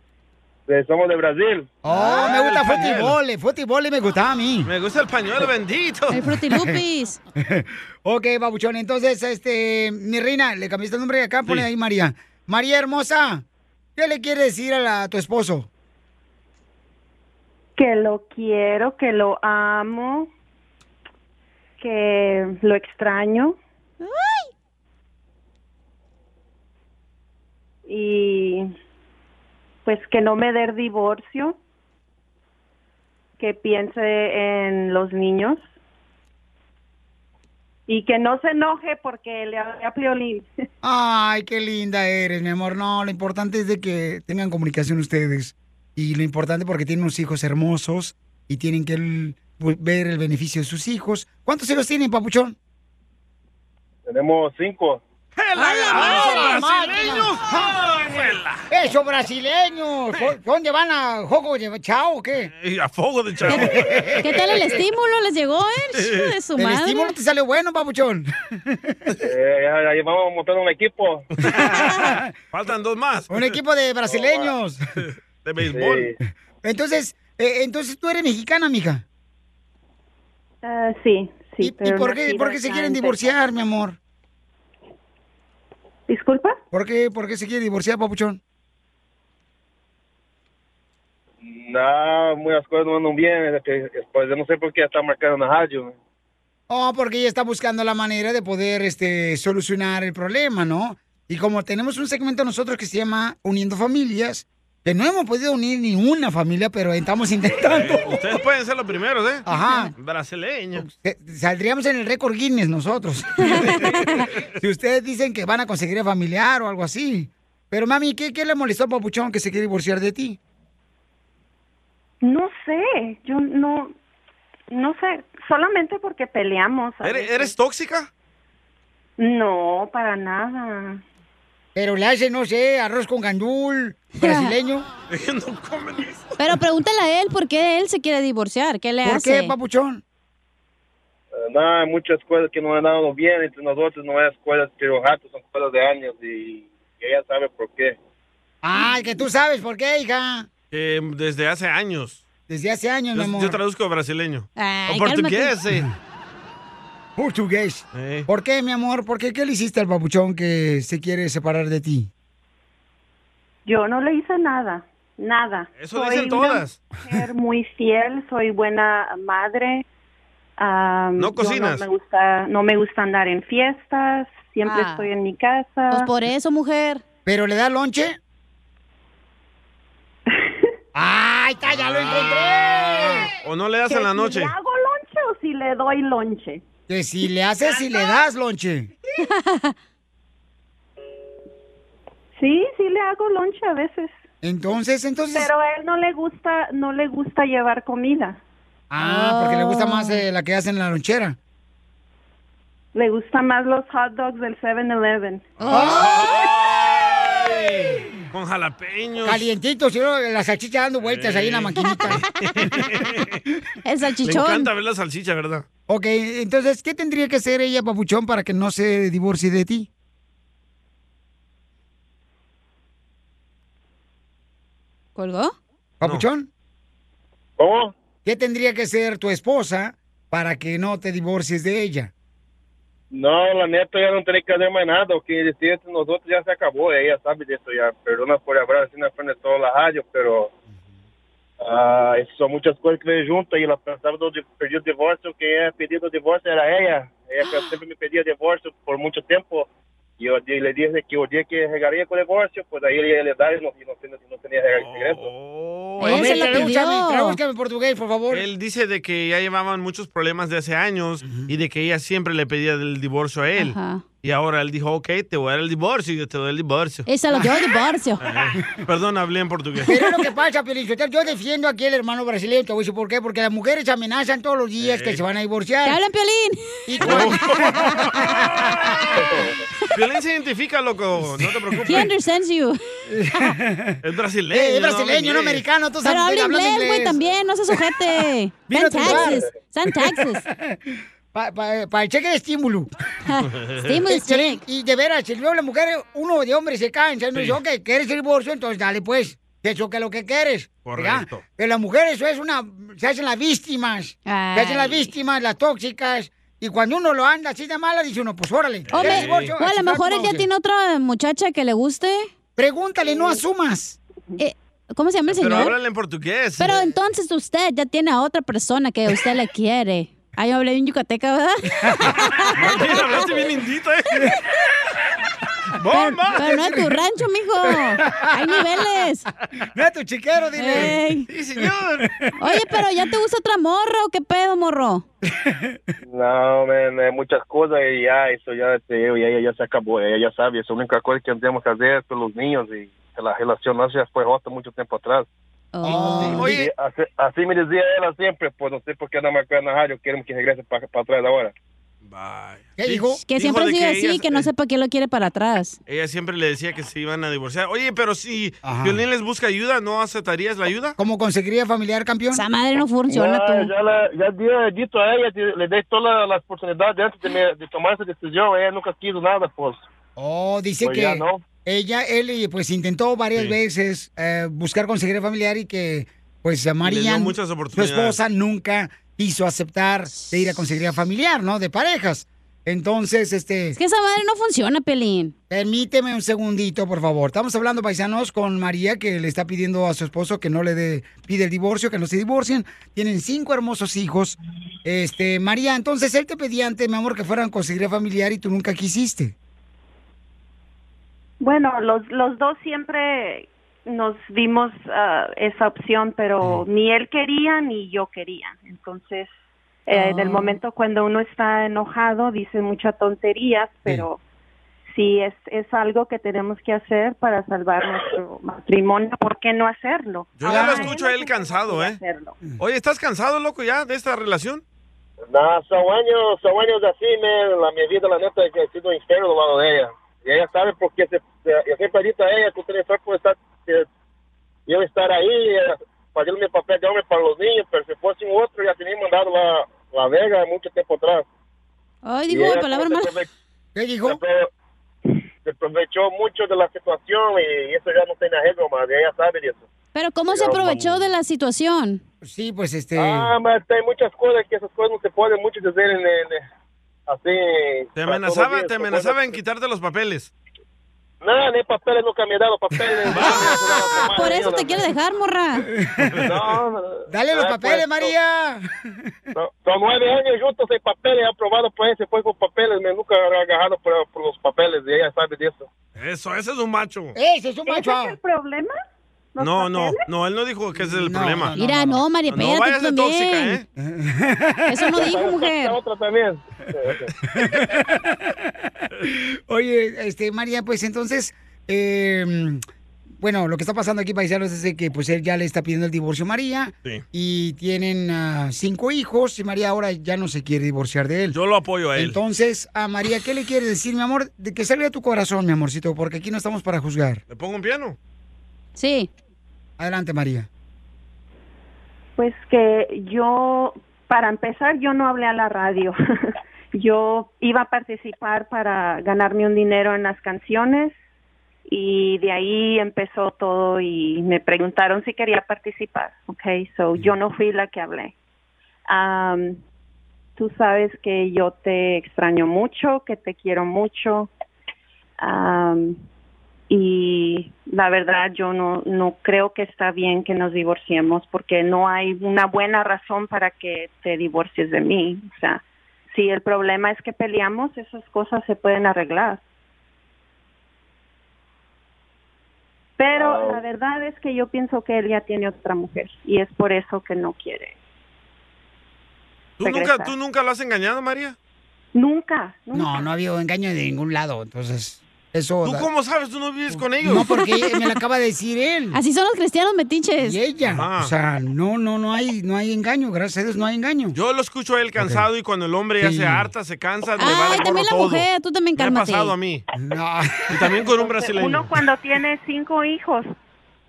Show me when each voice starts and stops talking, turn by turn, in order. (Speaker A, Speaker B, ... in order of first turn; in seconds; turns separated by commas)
Speaker A: 0.7-1.7, Speaker B: 1.8-4.7, Speaker C: 1.9-3.2, Speaker C: 4.7-6.3, Speaker D: 6.1-7.2, Speaker B: 6.5-6.8, Speaker B: 7.4-13.4, Speaker B: 13.9-15.7, Speaker E: 17.8-20.3, Speaker E: 21.8-23.6, Speaker D: 24.0-24.5, Speaker E: 27.9-28.7, Speaker E: 29.8-31.6, Speaker E: 33.4-35.7, Speaker E: 37.9-40.5, Speaker B: 40.8-52.5, Speaker A: 54.0-55.0, Speaker C: 55.4-58.6, Speaker D: 55.6-56.3, Speaker B: 55.9-57.8, Speaker B: 58.7-62.5, Speaker C: 62.5-64.1, Speaker B: 63.5-64.8, Speaker D: 64.2-67.1, Speaker C: 65.9-66.3, Speaker B: 66.5-69.0, Speaker A: 69.2-71.2, Speaker C: 71.4-73.5, Speaker B: 71.6-72.3, Speaker B: 73.3-74.8, Speaker A: 74.1-74.5, Speaker C: 75.4-76.1, Speaker A: 75.7-76.1, Speaker B: 76.2-79.0, Speaker E: 80.6-83.3, Speaker B: 81.6-84.0, Speaker E: 86.1-86.6, Speaker B: 86.7-88.4, Speaker A: 91.4-96.0, Speaker B: 96.7-108.2, Speaker C: 107.6-109.4, Speaker B: 109.5-109.9, Speaker C: 110.0-110.8, Speaker B: 110.8-113.9, Speaker B: 114.6-120.4, Speaker E: 122.2-123.9, Speaker E: 124.7-127.5, Speaker C: 127.0-128.1, Speaker E: 129.2-131.0, Speaker B: 131.7-134.9, Speaker D: 134.2-134.5, Speaker C: 135.1-136.3, Speaker D: 136.4-139.5, Speaker B: 139.0-140.0, Speaker A: 141.3-148.0, Speaker B: 148.6-150.5, Speaker C: 150.7-152.2, Speaker B: 152.5-153.6, Speaker C: 153.1-155.9, Speaker D: 154.6-155.6, Speaker B: 157.2-162.1, Speaker C: 157.9-158.3, Speaker E: 163.6-169.8, Speaker C: 165.8-166.8, Speaker E: 170.6-176.1, Speaker C: 171.2-171.9, Speaker D: 174.6-175.1, Speaker D: 175.9-177.0, Speaker B: 177.2-178.2, Speaker E: 180.3-180.5, Speaker B: 180.9-183.3, Speaker C: 181.7-182.2, Speaker C: 183.4-184.5, Speaker E: 183.9-186.6, Speaker B: 186.9-188.9, Speaker E: 187.6-188.2, Speaker D: 189.2-189.7, Speaker E: 192.3-194.1, Speaker B: 194.4-195.5, Speaker E: 195.3-198.4, Speaker B: 198.9-201.4, Speaker D: 199.0-200.2, Speaker E: 202.9-205.5, Speaker C: 205.6-209.5, Speaker D: 205.6-206.5, Speaker B: 205.7-206.1, Speaker B: 209.2-212.2, Speaker C: 211.0-213.4, Speaker D: 213.8-214.7, Speaker C: 214.2-215.6, Speaker B: 215.9-219.9, Speaker D: 225.2-225.5, Speaker B: 226.0-226.5, Speaker A: 227.6-227.9, Speaker B: 228.2-232.1, Speaker A: 233.1-240.5, Speaker A: 241.6-249.7, Speaker A: 250.2-255.2, Speaker C: 254.8-256.7, Speaker D: 256.0-257.4, Speaker B: 256.1-258.4, Speaker C: 258.3-267.1, Speaker D: 263.6-264.0, Speaker D: 267.1-268.2, Speaker B: 267.3-267.6, Speaker C: 268.2-269.9, Speaker B: 269.8-276.0, Speaker C: 274.8-275.2, Speaker D: 275.8-276.8, Speaker B: 276.9-279.4, Speaker C: 277.0-279.0, Speaker A: 279.2-279.5, Speaker C: 279.9-282.1, Speaker D: 281.9-282.8, Speaker B: 283.1-284.0, Speaker C: 284.0-285.6, Speaker B: 284.5-287.3, Speaker D: 286.0-290.4, Speaker B: 288.7-292.9, Speaker D: 293.3-294.6, Speaker C: 293.5-293.9, Speaker B: 294.1-310.5, Speaker C: 297.3-297.6, Speaker C: 300.8-301.4, Speaker D: 304.3-305.0, Speaker C: 308.9-309.5, Speaker D: 308.9-312.3, Speaker B: 312.6-314.0, Speaker D: 314.4-315.7, Speaker C: 315.3-316.8, Speaker D: 316.6-323.2, Speaker C: 322.5-324.4, Speaker C: 325.8-326.5, Speaker D: 325.9-329.3, Speaker B: 326.4-327.0, Speaker B: 327.9-328.6, Speaker B: 329.7-331.0, Speaker D: 330.6-331.3, Speaker C: 330.8-332.1, Speaker B: 331.6-332.3, Speaker D: 332.4-335.0, Speaker B: 335.3-335.8, Speaker A: 336.1-345.3, Speaker D: 345.7-346.4, Speaker B: 345.8-346.5, Speaker C: 346.0-346.7, Speaker A: 346.4-351.5, Speaker C: 352.1-354.5, Speaker B: 352.8-353.2, Speaker D: 353.2-355.8, Speaker C: 355.9-360.9, Speaker B: 358.6-359.0, Speaker B: 361.0-362.4, Speaker D: 362.3-363.7, Speaker A: 363.1-369.8, Speaker B: 370.1-383.8, Speaker A: 370.8-371.4, Speaker C: 376.8-378.2, Speaker D: 383.7-385.3, Speaker B: 385.5-399.3, Speaker E: 401.4-409.3, Speaker E: 409.9-414.2, Speaker D: 409.9-410.6, Speaker E: 414.9-422.4, Speaker C: 420.4-422.0, Speaker B: 420.5-420.9, Speaker C: 422.6-424.6, Speaker A: 425.3-433.9, Speaker A: 434.7-441.2, Speaker D: 442.0-443.1, Speaker A: 442.3-443.3, Speaker B: 443.7-444.2, Speaker A: 444.0-444.5, Speaker A: 445.4-449.6, Speaker D: 449.9-452.0, Speaker A: 450.3-450.9, Speaker B: 452.2-453.3, Speaker A: 452.9-456.4, Speaker A: 457.1-459.4, Speaker C: 457.9-460.3, Speaker A: 461.2-464.9, Speaker B: 462.9-463.9, Speaker C: 463.1-463.5, Speaker D: 464.1-465.6, Speaker B: 465.7-466.2, Speaker A: 466.2-468.1, Speaker B: 467.1-469.1, Speaker A: 469.3-475.7, Speaker C: 476.0-477.1, Speaker B: 477.1-478.2, Speaker E: 477.6-478.8, Speaker E: 479.3-480.0, Speaker C: 479.4-481.6, Speaker B: 480.8-482.1, Speaker D: 481.6-483.6, Speaker C: 482.3-483.6, Speaker B: 483.8-484.9, Speaker D: 484.7-485.8, Speaker A: 484.9-487.1, Speaker B: 487.3-492.6, Speaker B: 493.2-501.4, Speaker C: 501.3-502.2, Speaker B: 501.9-507.2, Speaker C: 507.3-507.9, Speaker D: 508.8-509.1, Speaker B: 509.8-510.5, Speaker E: 512.2-516.0, Speaker E: 516.7-521.0, Speaker E: 521.7-528.1, Speaker E: 528.9-529.6, Speaker E: 530.4-534.3, Speaker E: 535.2-536.0, Speaker E: 536.7-549.4, Speaker E: 553.0-557.7, Speaker A: 553.1-553.6, Speaker C: 559.6-561.4, Speaker E: 559.6-560.1, Speaker E: 561.9-563.1, Speaker B: 562.7-565.9, Speaker C: 565.6-567.3, Speaker B: 566.7-569.0, Speaker D: 567.3-567.8, Speaker D: 568.9-570.4, Speaker B: 570.2-574.2, Speaker C: 570.6-571.1, Speaker C: 574.1-579.6, Speaker B: 575.0-575.2, Speaker B: 576.0-576.5, Speaker D: 577.2-579.3, Speaker B: 579.8-580.7, Speaker C: 580.5-581.7, Speaker E: 580.9-583.3